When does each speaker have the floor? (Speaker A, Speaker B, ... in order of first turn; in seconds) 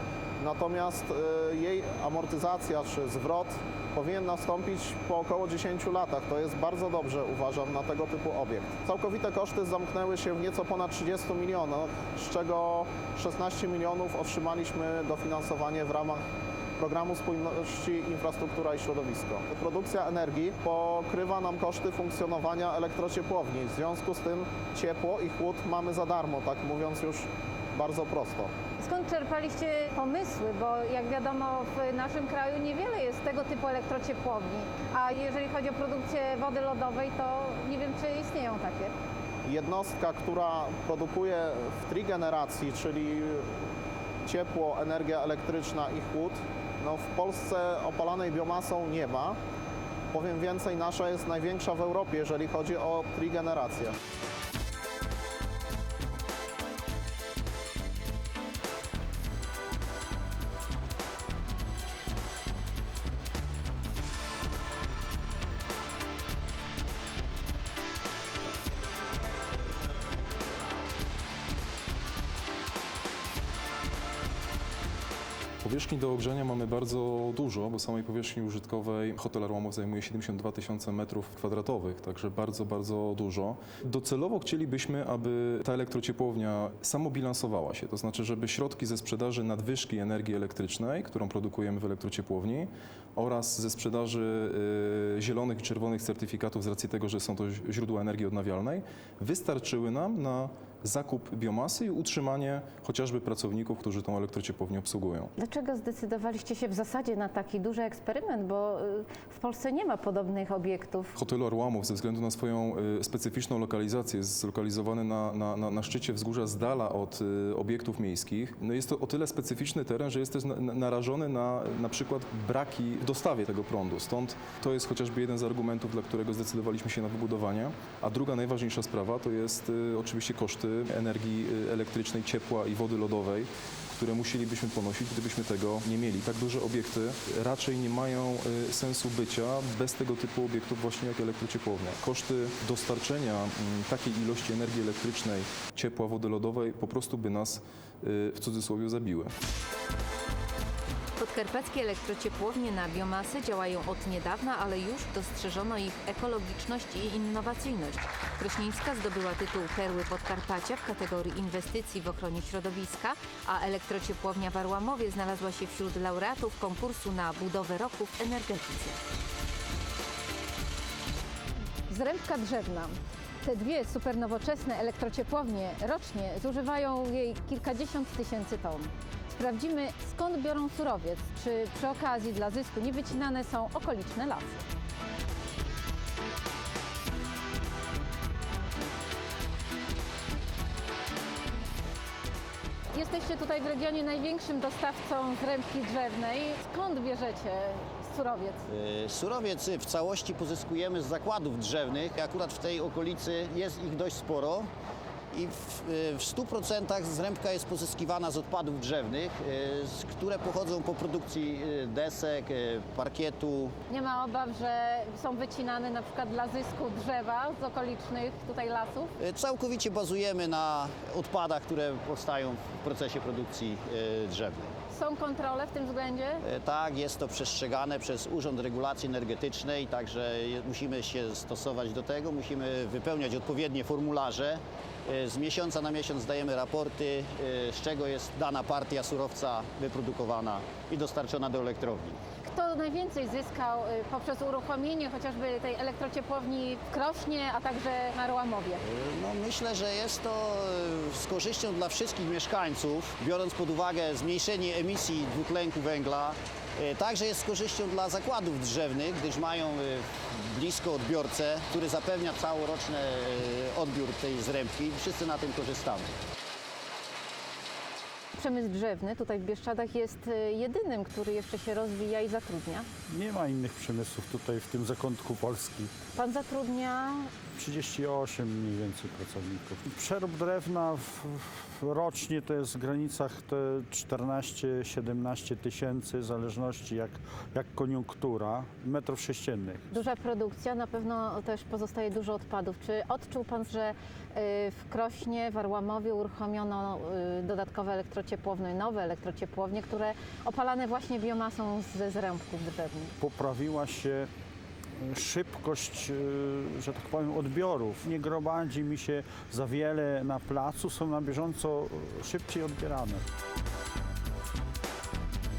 Speaker A: 0.4-16.2, 16.8-28.5, 39.5-43.7, 44.2-49.4, 50.1-54.0
Speaker B: 28.8-38.9, 105.4-111.2, 171.9-184.6, 192.9-198.6, 213.9-219.1, 224.9-226.4, 242.4-248.8, 268.3-272.9, 276.2-277.3, 289.9-303.1
Speaker C: 75.6-105.3, 111.2-149.3
Speaker D: 151.2-169.0
Speaker E: 198.7-204.7, 205.3-213.8, 219.2-224.8, 226.4-242.2, 248.8-266.1
Speaker F: 273.1-275.9, 277.6-281.2, 281.9-289.8, 303.2-304.3, 305.1-313.2